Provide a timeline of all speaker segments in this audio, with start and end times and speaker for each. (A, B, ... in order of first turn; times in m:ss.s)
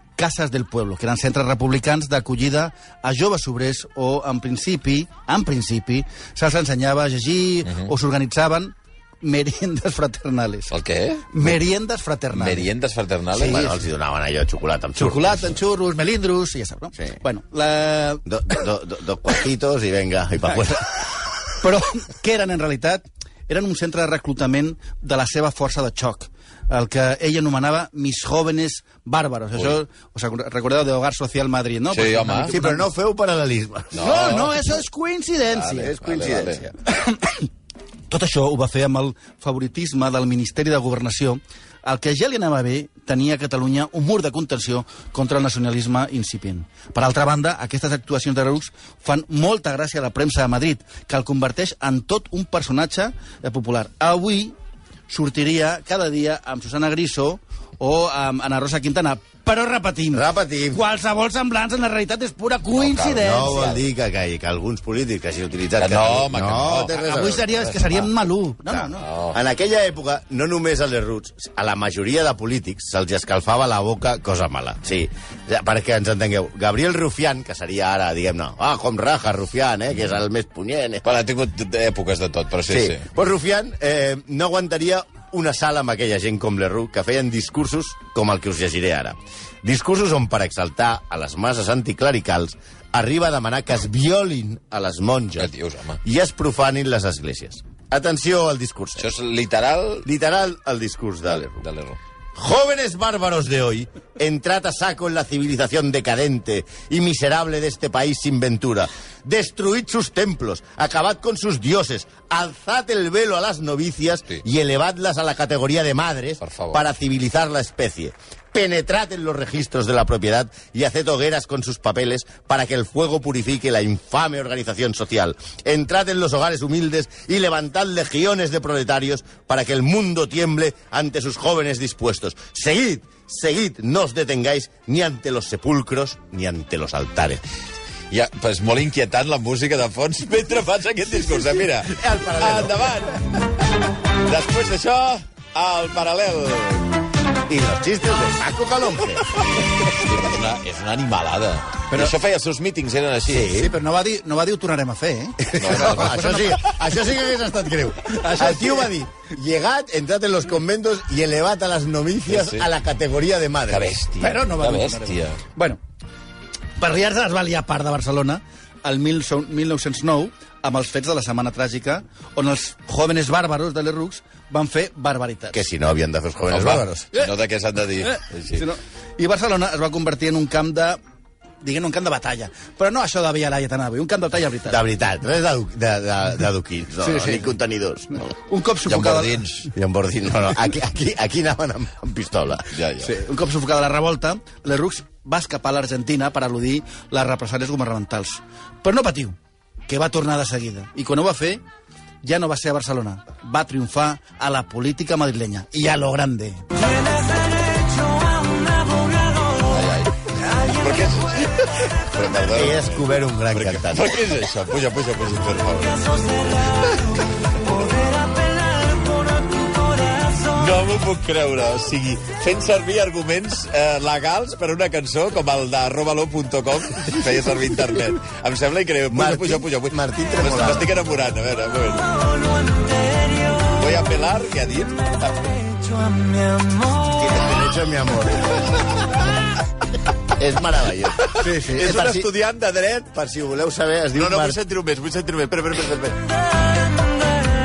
0:00.2-0:10.7 A
0:07.7-0:07.9 B
0:10.7-0:11.6 B
0:11.3-0:12.7 A
0:12.3-0:13.7 B
0:13.4-0:15.5 C
0:13.4-0:13.7 A
0:15.0-0:18.2 A
0:18.2-0:21.3 C
0:21.6-0:32.9 A
0:31.9-0:32.5 B
0:32.5-0:34.4 C
0:33.9-0:34.6 B
0:34.0-0:35.9 A
0:35.6-0:36.6 B
0:35.7-0:36.8 C
0:36.9-0:37.5 A
0:38.1-0:54.6 A
0:55.1-1:03.8 A
1:00.1-1:00.8 C
1:02.8-1:03.8 B
1:03.2-1:08.1 C
1:05.8-1:07.3 B
1:06.8-1:09.0 A
1:08.9-1:09.4 B
1:09.3-1:21.2 C
1:21.0-1:23.0 B
1:22.7-1:35.5 C
1:35.4-1:36.0 B
1:36.0-1:39.1 C
1:39.0-1:40.1 B
1:40.0-1:41.6 C
1:41.4-1:42.0 B
1:42.4-2:17.4 C
1:56.4-1:56.8 B
2:18.1-2:23.6 B
2:21.9-2:22.8 C
2:24.1-2:26.9 B
2:27.5-2:29.4 C
2:29.6-2:33.6 B
2:33.3-2:33.7 C
2:33.5-2:36.7 A
2:35.5-2:44.4 C
2:35.6-2:36.3 B
2:38.1-2:38.9 A
2:42.3-2:42.7 B
2:43.7-2:45.4 B
2:44.2-2:45.8 A
2:46.8-2:55.6 A
2:55.5-2:57.1 C
2:56.5-2:58.6 B
2:58.0-3:01.0 A
3:01.6-3:04.8 A
3:04.7-3:08.3 C
3:07.0-3:07.5 A
3:08.5-3:09.6 A
3:08.9-3:09.7 B
3:09.7-3:12.7 C
3:12.7-3:13.1 B
3:13.0-3:19.4 A
3:19.9-3:21.6 A
3:22.2-3:29.3 A
3:29.6-3:37.0 B
3:32.5-3:34.2 C
3:39.4-3:40.4 A
3:40.4-3:52.1 B
3:49.1-3:50.9 C
3:53.5-3:55.8 B
3:56.5-3:56.8 B
3:57.1-3:58.6 C
4:00.4-4:02.3 C
4:01.3-4:03.2 B
4:01.4-4:01.8 A
4:03.1-4:04.6 C
4:04.2-4:06.2 B